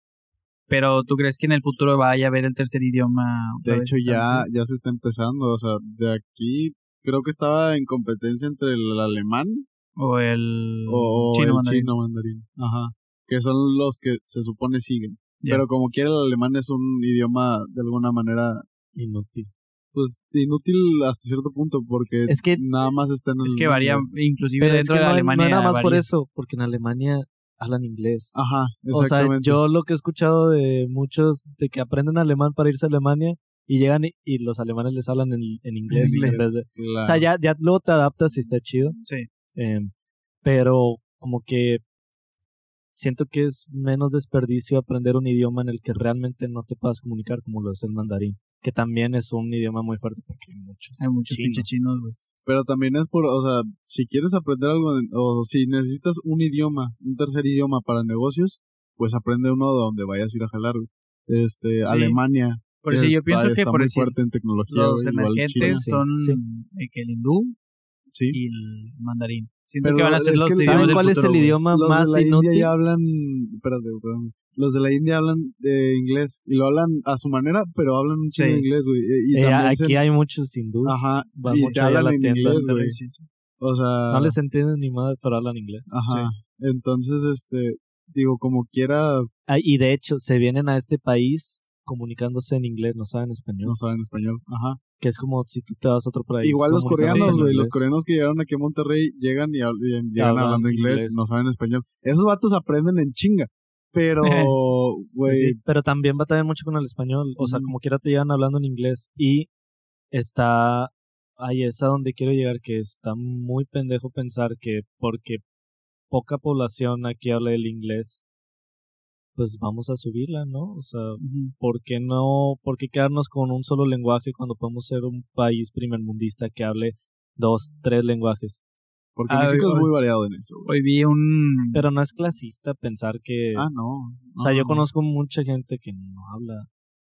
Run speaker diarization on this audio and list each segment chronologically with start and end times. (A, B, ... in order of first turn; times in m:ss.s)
0:00.7-0:04.5 A
0:03.6-0:09.6 B
0:10.0-0:11.9 A
0:10.9-0:18.6 B
0:18.9-0:19.5 C
0:19.9-0:24.0 B
0:22.3-0:22.6 C
0:23.4-0:26.0 A
0:24.6-0:28.4 C
0:28.4-0:29.6 B
0:28.9-0:39.0 C
0:35.9-0:36.5 A
0:35.9-0:37.2 B
0:39.5-0:39.9 C
0:40.4-0:41.8 C
0:42.9-0:51.7 C
0:51.0-0:52.2 A
0:52.4-1:05.9 B
1:01.8-1:02.2 A
1:02.8-1:04.2 A
1:04.7-1:07.6 A
1:05.6-1:06.4 C
1:08.3-1:11.6 A
1:09.8-1:11.1 B
1:10.6-1:12.7 C
1:11.7-1:20.0 B
1:18.4-1:18.6 A
1:19.3-1:22.6 C
1:20.8-1:23.0 B
1:21.5-1:21.8 A
1:22.4-1:23.2 A
1:23.6-1:24.4 B
1:24.1-1:26.0 C
1:25.9-1:29.3 B
1:29.5-1:33.8 C
1:33.6-1:34.8 B
1:35.0-1:37.8 C
1:36.4-1:45.6 B
1:37.0-1:37.4 A
1:40.2-1:41.3 C
1:44.2-1:44.6 A
1:45.2-1:49.5 C
1:47.4-1:47.7 A
1:50.1-1:55.4 C
1:56.1-1:58.2 C
1:59.4-2:08.6 C
2:01.2-2:01.5 A
2:09.2-2:10.7 B
2:09.3-2:09.9 A
2:10.6-2:11.8 A
2:11.7-2:13.7 C
2:13.5-2:14.8 B
2:14.4-2:16.7 C